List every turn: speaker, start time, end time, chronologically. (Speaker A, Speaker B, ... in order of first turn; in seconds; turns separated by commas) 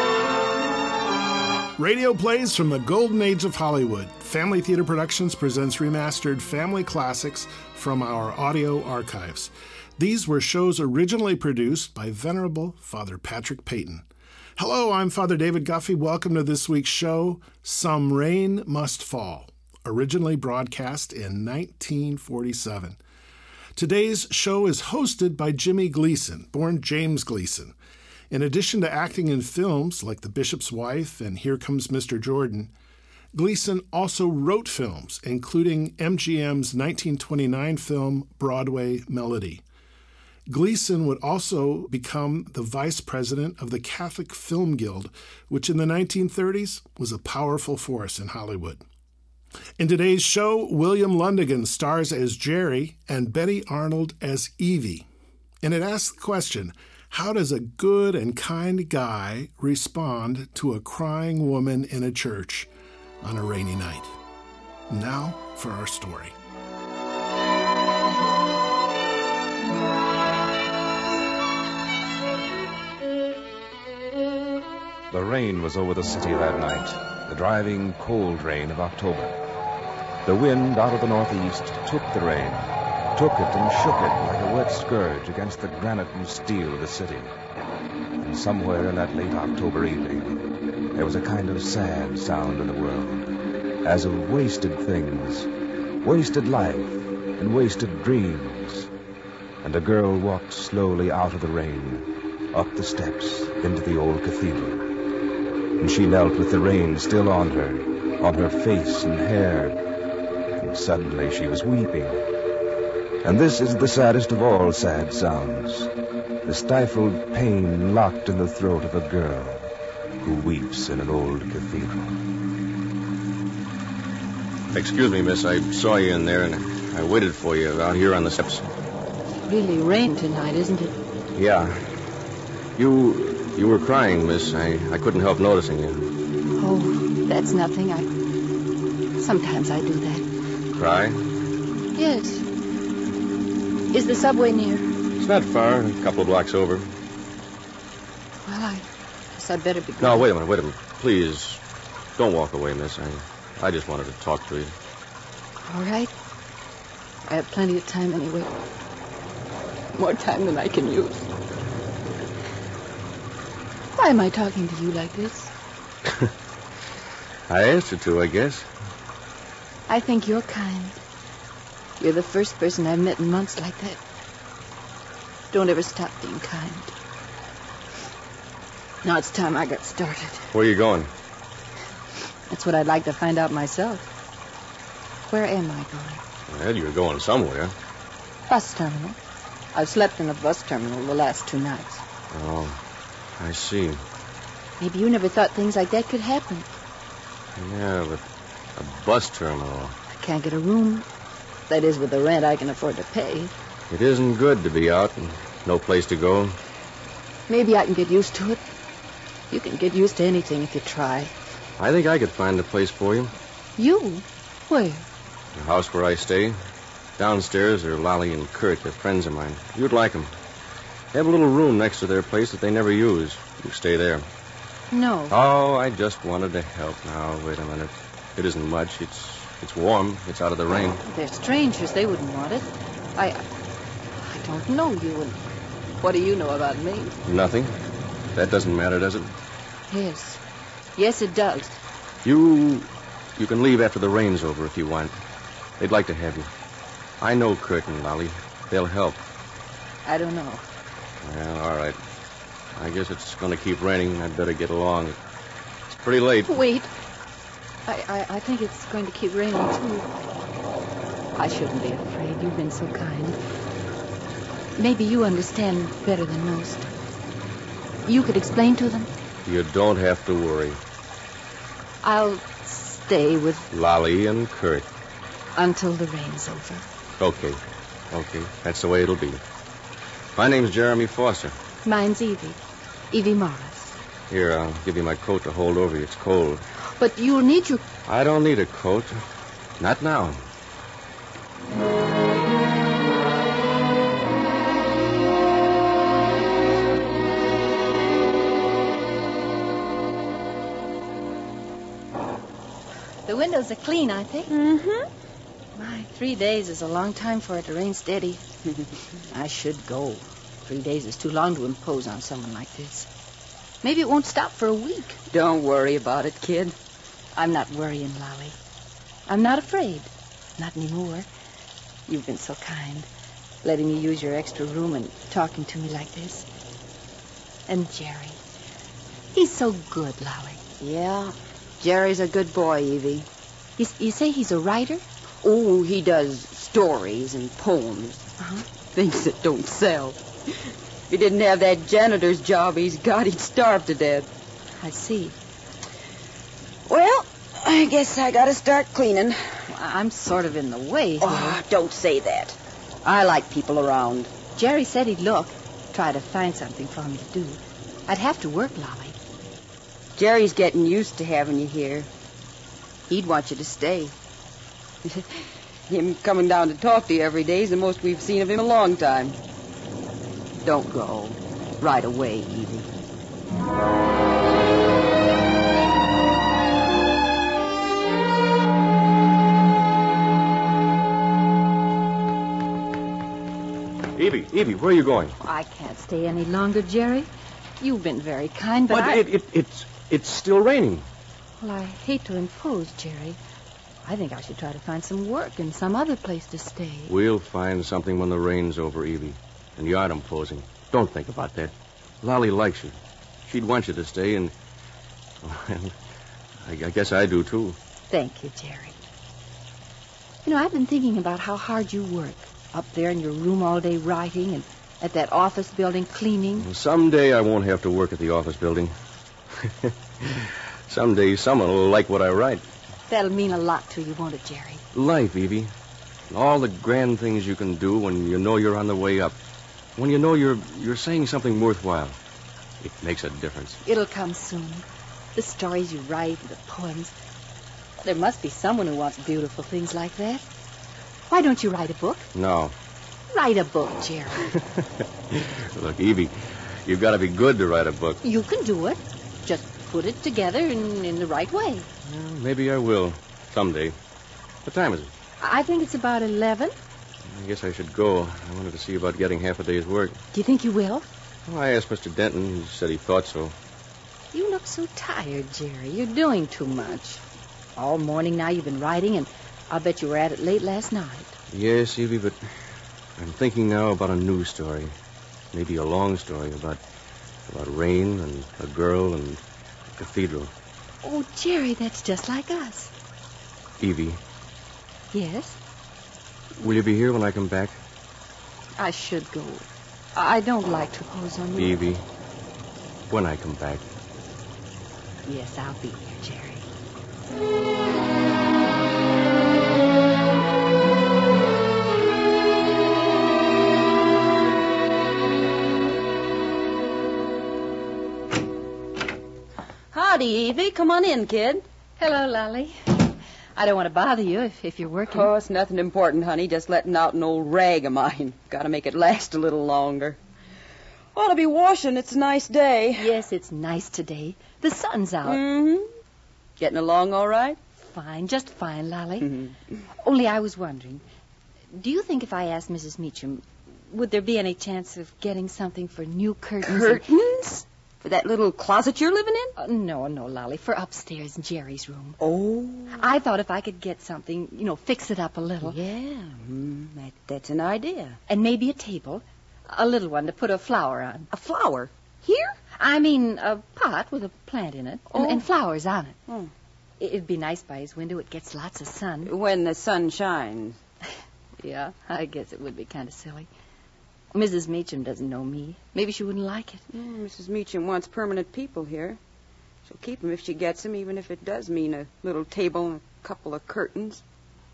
Speaker A: 1.8-14.1, Speaker A: 14.6-23.0, Speaker A: 23.8-27.8, Speaker A: 28.3-32.7, Speaker A: 33.3-39.6, Speaker A: 40.5-48.8, Speaker A: 49.8-55.1, Speaker A: 55.6-62.7, Speaker A: 63.2-64.1, Speaker A: 64.9-66.3, Speaker B: 75.1-79.4, Speaker B: 80.2-87.3, Speaker B: 88.2-93.3, Speaker B: 93.8-95.5, Speaker B: 96.0-98.9, Speaker B: 99.6-104.8, Speaker B: 105.8-109.8, Speaker B: 110.6-112.3, Speaker B: 113.2-115.9, Speaker B: 116.4-119.7, Speaker B: 120.2-122.2, Speaker C: 124.7-128.7, Speaker D: 129.5-131.0, Speaker C: 131.3-132.0, Speaker C: 132.8-136.1, Speaker D: 136.6-138.1, Speaker D: 139.2-140.3, Speaker C: 140.7-141.3, Speaker D: 141.9-142.5, Speaker D: 143.9-144.9, Speaker C: 145.2-146.9, Speaker D: 148.4-150.3, Speaker C: 150.0-151.6, Speaker C: 152.2-154.8, Speaker D: 155.6-156.1, Speaker D: 157.3-158.5, Speaker D: 159.9-161.3, Speaker D: 163.9-165.5, Speaker C: 167.5-168.7, Speaker D: 169.9-171.0, Speaker D: 172.0-174.0, Speaker D: 175.5-176.9, Speaker D: 179.0-180.5, Speaker C: 180.5-181.1, Speaker D: 182.5-184.1, Speaker D: 185.3-186.2, Speaker C: 186.5-187.7, Speaker D: 188.5-189.2, Speaker D: 189.7-192.1, Speaker C: 192.3-192.8, Speaker C: 193.4-194.0, Speaker D: 194.8-196.8, Speaker C: 197.6-198.2, Speaker C: 198.8-200.0, Speaker D: 200.1-201.1, Speaker D: 201.7-203.5, Speaker C: 203.9-206.6, Speaker D: 207.5-208.6, Speaker D: 209.5-211.3, Speaker C: 211.8-213.3, Speaker D: 213.8-215.1, Speaker C: 215.6-216.6, Speaker C: 217.2-220.3, Speaker C: 221.1-224.3, Speaker D: 224.9-225.3, Speaker C: 225.3-231.0, Speaker D: 231.0-233.4, Speaker D: 234.2-235.4, Speaker D: 236.0-237.2, Speaker C: 237.2-237.8, Speaker C: 238.3-239.3, Speaker D: 239.9-240.4, Speaker D: 241.0-241.8, Speaker C: 242.2-245.2, Speaker C: 245.8-246.5, Speaker C: 247.2-249.2, Speaker D: 250.1-250.6, Speaker C: 251.2-252.0, Speaker C: 252.8-255.2, Speaker C: 255.9-256.6, Speaker D: 256.5-256.9, Speaker D: 257.9-260.1, Speaker D: 261.4-263.4, Speaker D: 264.8-267.0, Speaker D: 268.1-269.1, Speaker C: 269.4-270.8, Speaker D: 272.0-273.7, Speaker C: 273.7-274.9, Speaker D: 275.6-276.9, Speaker C: 277.2-277.6, Speaker C: 278.1-279.4, Speaker C: 280.4-281.6, Speaker D: 281.9-282.6, Speaker D: 283.1-284.0, Speaker C: 284.3-286.6, Speaker D: 287.0-287.8, Speaker C: 288.1-289.2, Speaker C: 289.8-290.4, Speaker D: 303.3-304.5, Speaker E: 304.5-305.1, Speaker D: 305.8-308.4, Speaker D: 309.3-313.1, Speaker D: 313.8-315.2, Speaker E: 315.3-316.8, Speaker D: 317.4-318.6, Speaker D: 319.3-321.3, Speaker D: 322.1-323.1, Speaker D: 323.6-326.5, Speaker D: 327.7-328.4, Speaker D: 329.3-330.6, Speaker E: 330.8-333.3, Speaker D: 333.8-335.0, Speaker E: 335.4-338.3, Speaker D: 338.4-338.6, Speaker E: 338.9-340.2, Speaker E: 341.1-344.3, Speaker D: 344.8-345.4, Speaker E: 346.9-349.6, Speaker D: 349.7-351.6, Speaker E: 351.2-354.3, Speaker D: 354.6-359.2, Speaker E: 360.2-362.1, Speaker E: 363.1-364.1, Speaker E: 365.9-369.4, Speaker E: 370.6-372.9, Speaker C: 384.1-385.4, Speaker D: 385.4-389.2, Speaker C: 388.9-391.1, Speaker D: 391.6-393.4, Speaker D: 394.0-397.1, Speaker C: 397.1-404.5, Speaker C: 405.4-405.9, Speaker C: 406.6-407.8, Speaker D: 408.1-409.0, Speaker D: 410.4-416.7, Speaker C: 416.6-418.9, Speaker C: 419.6-422.6, Speaker D: 423.1-424.8, Speaker C: 424.9-425.7, Speaker C: 426.3-429.4, Speaker C: 430.0-432.2, Speaker C: 432.8-433.8, Speaker D: 433.8-437.2, Speaker D: 438.0-440.5, Speaker D: 441.3-442.3, Speaker C: 442.3-442.8, Speaker D: 443.3-444.6, Speaker C: 445.3-448.2, Speaker D: 448.2-451.9, Speaker C: 452.1-453.9, Speaker C: 454.6-455.1, Speaker D: 455.4-456.7, Speaker C: 457.2-460.2, Speaker D: 460.3-461.1, Speaker C: 461.5-463.6, Speaker D: 464.3-467.2, Speaker D: 467.8-471.4, Speaker C: 471.5-472.4, Speaker C: 473.2-474.9, Speaker C: 475.5-476.8, Speaker C: 477.5-480.5, Speaker D: 481.0-482.9, Speaker C: 483.8-484.2, Speaker D: 485.1-485.6, Speaker C: 486.6-487.8, Speaker D: 488.8-491.8, Speaker C: 491.6-492.0, Speaker C: 493.1-493.9, Speaker D: 495.3-496.7, Speaker E: 509.9-511.6, Speaker D: 512.0-512.8, Speaker D: 513.6-515.3, Speaker E: 515.1-520.2, Speaker E: 521.1-523.1, Speaker D: 523.0-525.4, Speaker E: 525.2-525.9, Speaker E: 526.6-527.6, Speaker D: 527.8-529.4, Speaker D: 530.0-531.0, Speaker D: 531.7-537.1, Speaker E: 536.6-539.5, Speaker D: 539.6-542.2, Speaker E: 542.2-543.0, Speaker D: 542.9-545.8, Speaker E: 545.6-548.2, Speaker D: 548.3-551.3, Speaker E: 551.3-552.6, Speaker D: 552.8-556.2, Speaker E: 555.1-555.4, Speaker D: 557.0-559.3, Speaker E: 559.2-560.8, Speaker D: 561.6-563.5, Speaker D: 564.3-566.8, Speaker E: 566.9-569.2, Speaker E: 569.9-574.2